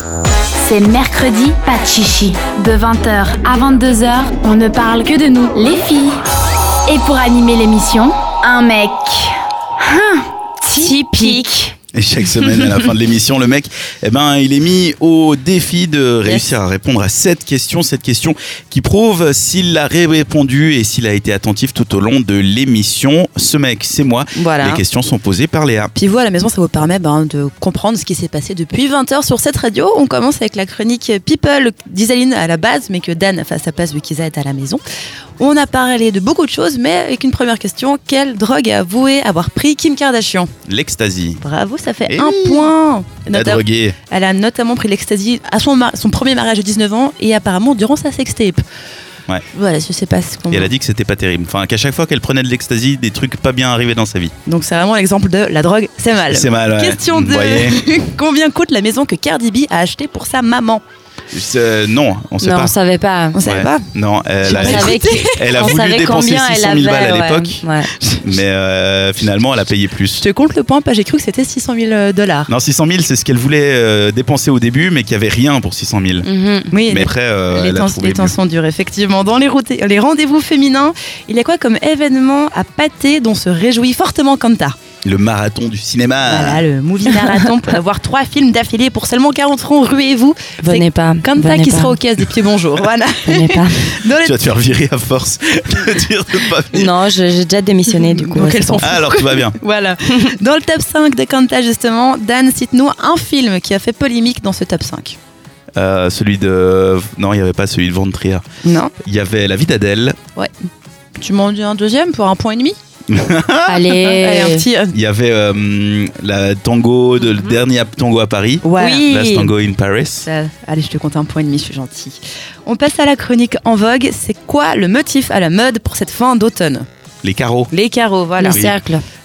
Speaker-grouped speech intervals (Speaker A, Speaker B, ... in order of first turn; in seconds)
Speaker A: 0.6-6.2, 6.9-11.4
Speaker B: 10.8-11.7, 62.4-63.4, 64.5-67.9, 76.2-76.8, 90.6-92.0, 93.3-93.9, 96.7-98.9, 113.7-114.7, 118.8-119.5, 128.4-129.0
Speaker C: 11.9-25.9, 40.7-41.4, 42.1-42.7, 43.3-44.0, 50.5-54.3, 56.3-57.9, 61.3-62.8, 63.4-67.7, 68.2-70.2, 72.5-76.3, 76.9-78.4, 85.0-86.7, 94.2-97.0, 98.8-99.6, 105.8-108.4, 109.0-110.2, 113.1-113.9, 114.9-120.3, 127.2-127.7, 128.5-128.8
Speaker D: 24.4-24.8, 26.0-34.8, 35.4-40.5, 41.4-48.6, 49.5-50.7, 54.5-60.8, 63.3-63.9, 64.5-65.8, 70.2-72.5, 76.7-84.8, 86.2-94.4, 97.9-105.2, 108.6-108.9, 111.2-112.8, 113.9-115.0, 118.6-119.1, 120.2-126.9, 127.7-128.7